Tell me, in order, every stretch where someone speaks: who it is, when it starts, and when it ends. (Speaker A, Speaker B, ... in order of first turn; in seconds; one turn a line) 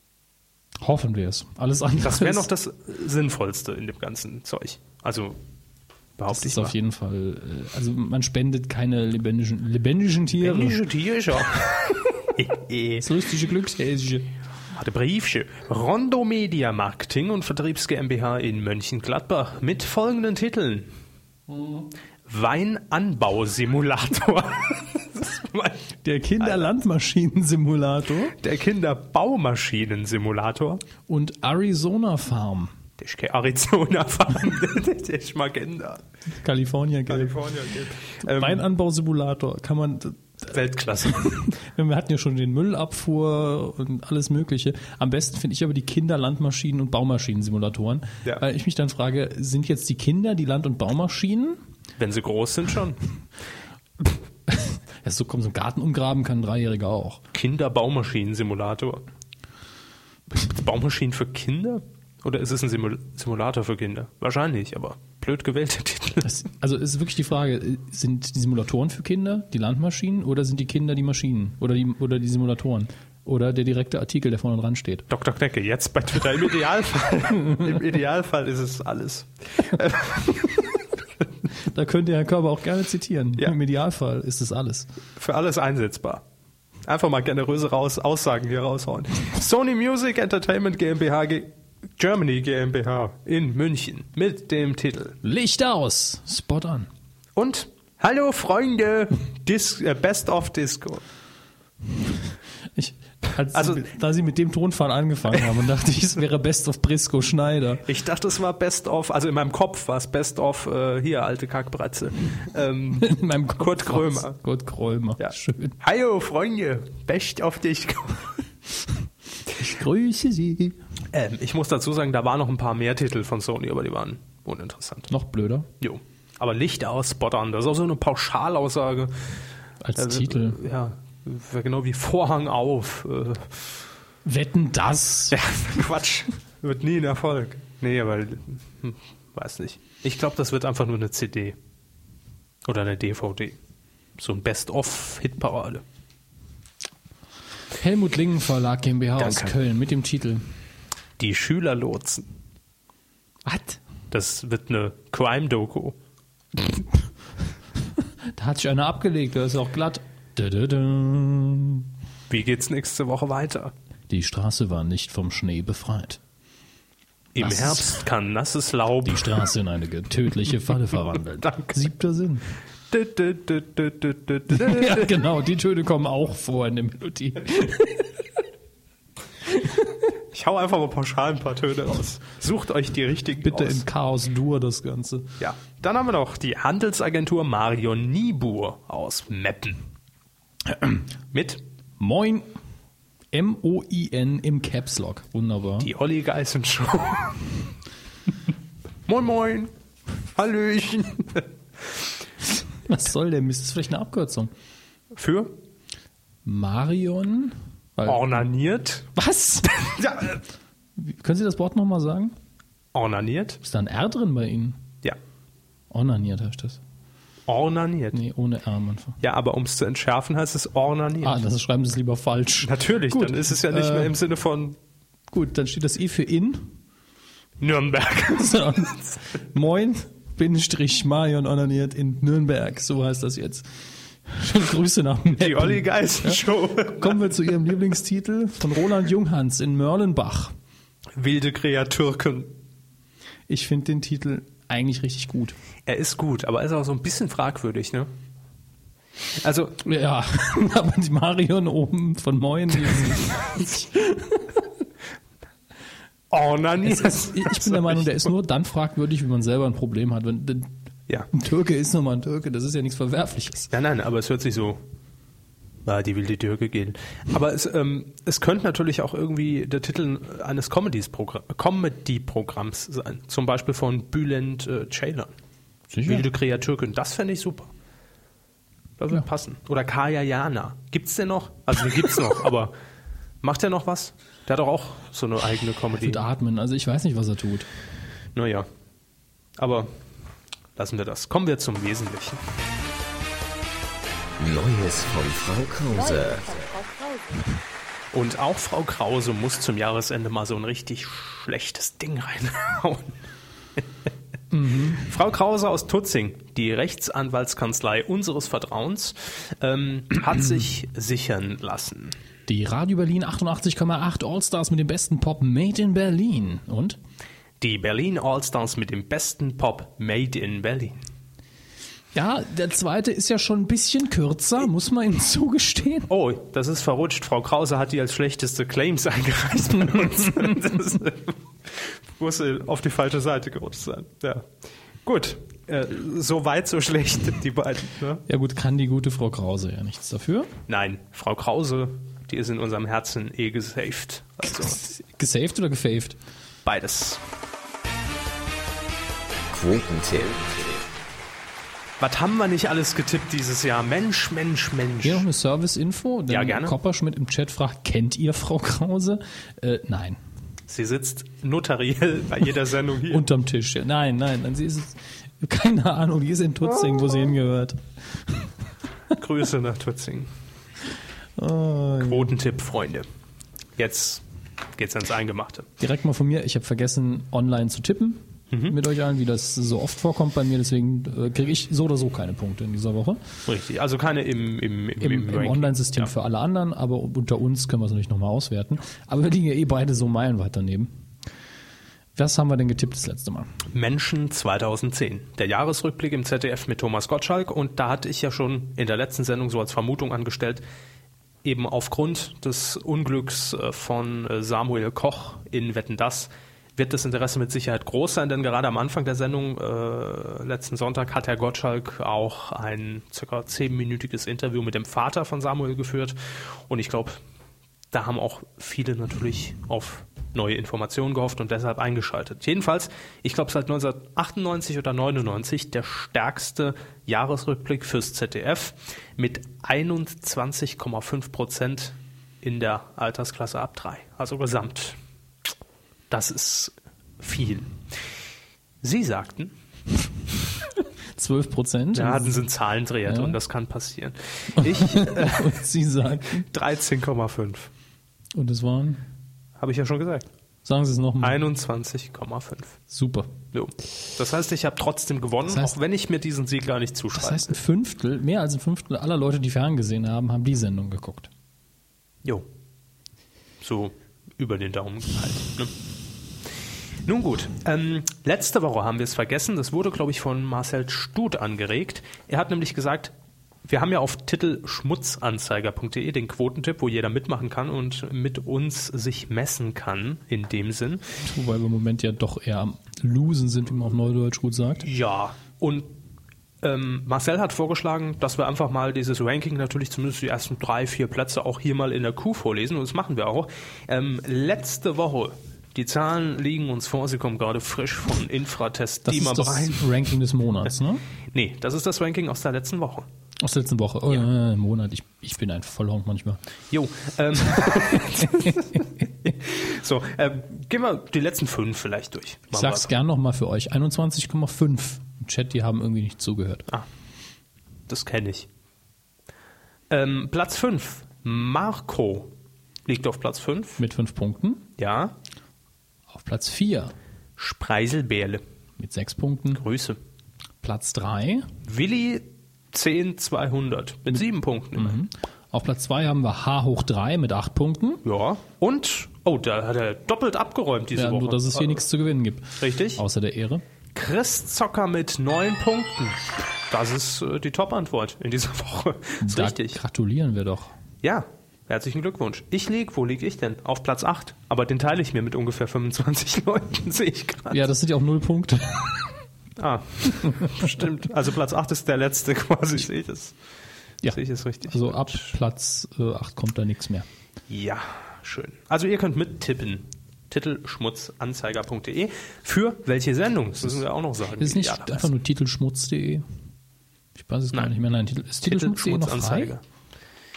Speaker A: 0.8-2.5
Speaker B: 2.0-5.4
Speaker B: 6.2-6.7
Speaker A: 6.3-10.8
Speaker B: 10.4-13.1
Speaker A: 13.0-14.3
Speaker B: 14.7-20.9
Speaker B: 22.3-26.6
Speaker A: 26.0-28.4
Speaker B: 28.4-30.8
Speaker A: 31.1-32.7
Speaker B: 33.0-36.0
Speaker A: 36.4-37.4
Speaker B: 37.1-38.6
Speaker A: 38.2-40.5
Speaker B: 40.5-41.3
Speaker A: 41.1-51.6
Speaker B: 52.0-53.0
Speaker A: 54.5-57.2
Speaker B: 57.3-59.0
Speaker B: 60.3-66.3
Speaker A: 66.2-75.1
Speaker B: 75.1-80.6
Speaker A: 81.5-84.9
Speaker B: 85.2-86.2
Speaker B: 86.9-95.2
Speaker A: 95.2-96.9
Speaker B: 97.4-101.0
Speaker A: 102.8-107.8
Speaker B: 103.5-103.8
Speaker B: 107.8-114.4
Speaker A: 113.0-115.7
Speaker B: 115.2-118.5
Speaker A: 119.6-120.8
Speaker B: 121.1-125.1
Speaker A: 125.1-125.7
Speaker B: 125.8-129.1
Speaker A: 129.8-130.6
Speaker B: 129.9-133.7
Speaker A: 134.2-135.4
Speaker B: 135.3-141.6
Speaker B: 142.7-143.6
Speaker B: 144.2-145.8
Speaker A: 147.7-150.4
Speaker B: 149.2-149.5
Speaker B: 151.2-152.3
Speaker A: 153.4-153.8
Speaker B: 154.1-156.0
Speaker A: 158.0-161.9
Speaker B: 162.3-163.7
Speaker A: 164.1-166.2
Speaker B: 167.3-169.5
Speaker A: 167.4-168.0
Speaker A: 169.0-172.4
Speaker B: 171.4-171.8
Speaker B: 172.9-175.2
Speaker A: 174.5-178.2
Speaker B: 180.3-183.8
Speaker A: 183.4-185.3
Speaker B: 185.4-189.8
Speaker A: 190.7-191.0
Speaker B: 191.3-191.6
Speaker A: 192.0-192.5
Speaker A: 193.3-195.9
Speaker B: 195.8-197.5
Speaker B: 199.1-199.7
Speaker B: 200.3-201.5
Speaker A: 202.8-204.5
Speaker B: 205.1-205.6
Speaker A: 206.4-208.4
Speaker B: 208.1-209.1
Speaker A: 209.2-210.3
Speaker B: 210.0-210.4
Speaker A: 210.9-212.3
Speaker B: 212.9-213.6
Speaker A: 213.6-214.8
Speaker A: 215.9-216.8
Speaker B: 217.5-218.2
Speaker A: 218.1-219.2
Speaker B: 219.2-221.4
Speaker A: 221.2-224.1
Speaker B: 222.6-224.8
Speaker A: 225.3-226.8
Speaker B: 227.6-229.2
Speaker A: 228.4-240.6
Speaker B: 235.3-237.3
Speaker B: 241.2-242.5
Speaker A: 243.5-245.6
Speaker B: 245.9-248.1
Speaker B: 249.3-249.8
Speaker A: 249.8-254.6
Speaker B: 256.3-258.3
Speaker A: 256.8-260.7
Speaker A: 261.3-263.7
Speaker B: 263.7-264.8
Speaker B: 265.9-275.3
Speaker A: 275.9-276.3
Speaker B: 276.1-277.7
Speaker B: 279.0-282.7
Speaker B: 283.4-286.2
Speaker A: 286.0-287.7
Speaker B: 288.4-288.7
Speaker B: 289.6-289.9
Speaker B: 290.8-292.4
Speaker C: 294.4-296.9
Speaker B: 298.1-303.2
Speaker A: 304.5-305.0
Speaker B: 305.0-312.1
Speaker A: 312.5-317.0
Speaker B: 317.6-321.0
Speaker A: 322.1-326.1
Speaker B: 326.1-334.5
Speaker B: 335.1-338.2
Speaker A: 338.3-340.5
Speaker B: 340.7-344.8
Speaker A: 344.6-346.2
Speaker B: 346.6-347.2
Speaker C: 349.5-350.8
Speaker B: 352.0-355.2
Speaker A: 355.0-360.2
Speaker B: 356.3-356.7
Speaker B: 360.7-363.3
Speaker A: 363.1-368.5
Speaker B: 369.1-370.3
Speaker A: 371.4-372.4
Speaker B: 372.0-373.1
Speaker B: 373.8-374.2
Speaker B: 374.7-375.7
Speaker A: 375.8-383.2
Speaker B: 378.5-378.8
Speaker B: 383.4-386.1
Speaker A: 385.0-390.9
Speaker A: 392.1-393.5
Speaker B: 393.7-400.6
Speaker B: 401.4-417.2
Speaker B: 417.9-435.0
Speaker B: 436.1-437.7
Speaker B: 438.8-439.5
Speaker A: 441.1-442.4
Speaker B: 441.9-445.6
Speaker A: 443.1-443.4
Speaker A: 444.6-446.4
Speaker B: 446.4-447.7
Speaker A: 448.4-449.0
Speaker B: 449.6-450.3
Speaker A: 450.6-451.4
Speaker B: 451.2-452.8
Speaker A: 452.9-453.3
Speaker B: 453.5-457.6
Speaker A: 455.4-455.7
Speaker A: 457.1-461.3
Speaker B: 463.6-465.7
Speaker B: 467.1-473.1
Speaker B: 473.6-481.1
Speaker A: 481.2-484.9
Speaker B: 484.8-485.9
Speaker B: 486.6-500.0
Speaker A: 499.1-501.0
Speaker B: 501.3-503.1
Speaker A: 503.4-506.4
Speaker B: 506.7-512.9
Speaker A: 512.5-516.6
Speaker B: 517.9-518.5
Speaker B: 519.9-522.3
Speaker B: 522.9-523.8
Speaker A: 523.8-524.6
Speaker B: 524.8-525.1
Speaker A: 526.1-526.9
Speaker B: 527.4-528.4
Speaker A: 528.8-529.6
Speaker B: 529.5-530.0
Speaker A: 530.6-531.5
Speaker B: 531.6-535.0
Speaker A: 534.8-538.0
Speaker B: 538.0-541.9
Speaker A: 540.9-543.6
Speaker B: 542.6-543.0
Speaker B: 543.9-549.8
Speaker A: 549.2-550.7
Speaker B: 551.0-557.6
Speaker A: 557.5-559.2
Speaker B: 559.6-563.4
Speaker A: 564.0-567.1
Speaker B: 564.1-565.3
Speaker B: 567.5-575.1
Speaker A: 574.4-576.2
Speaker A: 577.1-579.5
Speaker B: 578.4-579.6